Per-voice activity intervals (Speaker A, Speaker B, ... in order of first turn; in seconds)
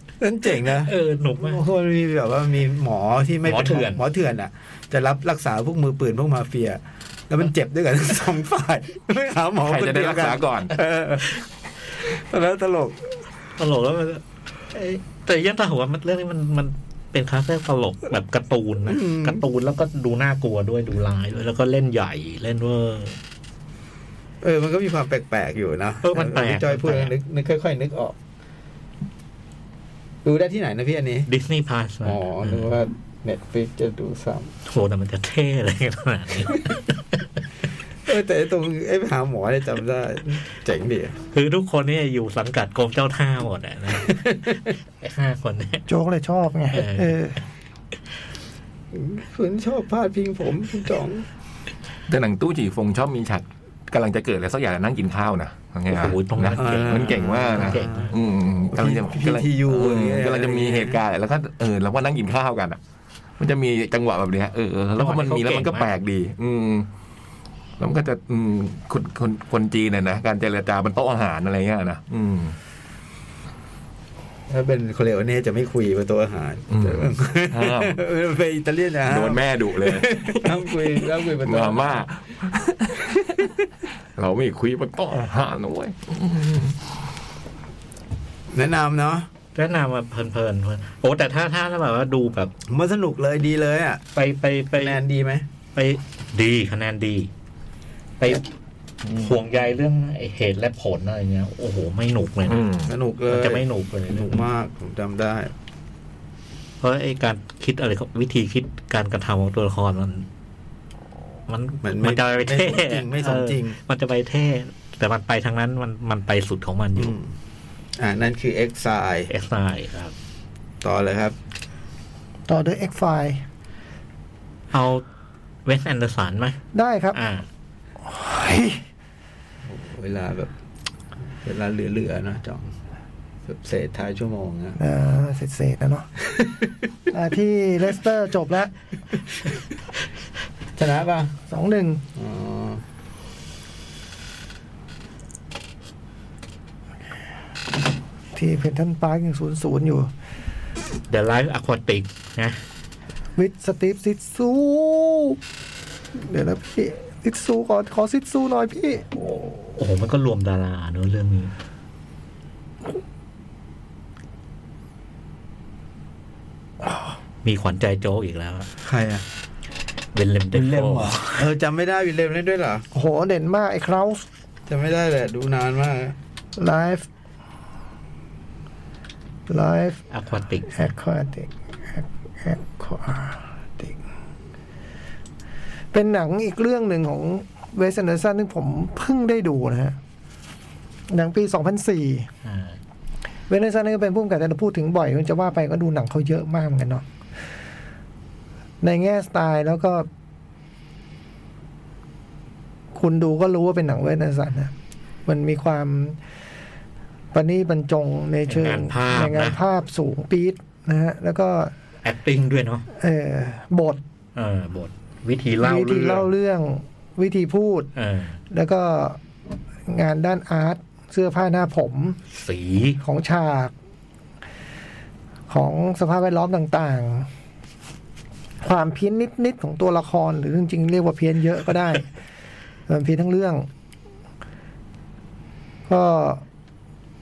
Speaker A: 0.2-11.4, 12.0-13.0, 18.9-19.4, 24.4-28.2, 30.2-31.3, 32.0-34.5, 38.1-41.2, 44.0-44.6, 48.9-51.3, 56.5-58.1, 58.7-61.0, 74.5-82.0, 88.5-89.3, 92.7-94.0, 94.8-95.5, 102.9-105.5, 111.8-113.8, 117.0-117.3, 118.0-119.3, 120.8-121.3, 129.7-130.5, 131.4-132.7, 133.5-134.8, 140.8-141.4, 142.2-142.8, 168.8-169.2, 170.5-172.8, 174.7-176.2
Speaker B: 0.7-1.6, 3.5-4.0, 13.6-23.2, 26.0-27.1, 31.3-32.7, 34.7-37.2, 41.3-44.3, 45.0-45.9, 46.7-47.2, 55.9-58.1, 65.0-65.9, 89.5-92.5, 94.2-95.0, 95.8-97.3, 98.2-98.5, 99.1-102.6, 103.3-104.5, 106.8-110.3, 111.5-117.2, 119.3-120.1, 124.7-125.0, 125.7-126.6, 127.1-127.5, 151.1-152.6, 159.2-161.5, 167.4-168.7, 170.1-171.5, 180.1-180.9, 192.4-192.8, 208.5-209.6, 212.0-212.8, 214.4-216.3, 218.0-218.4, 222.3-223.0
Speaker C: 9.6-10.8, 52.1-62.8, 63.4-66.9, 67.8-72.6, 76.7-78.0, 79.1-80.7, 81.4-83.5, 84.2-86.8, 102.5-102.9
Speaker D: 45.9-47.4, 122.5-123.4, 126.7-127.2, 128.0-128.8, 134.8-136.1, 137.1-138.7, 141.5-142.0, 148.3-150.1, 153.4-155.4, 156.1-159.1, 172.9-174.2, 176.6-177.1, 179.5-180.0, 180.7-184.0, 185.9-190.0, 191.1-192.3, 193.5-197.1, 198.8-200.1, 202.9-204.7, 205.3-206.2, 207.3-211.7, 212.9-214.0, 215.6-217.9, 218.5-219.2, 219.9-222.2, 223.0-223.7, 225.5-227.3, 228.6-232.1, 232.9-233.7, 235.9-236.4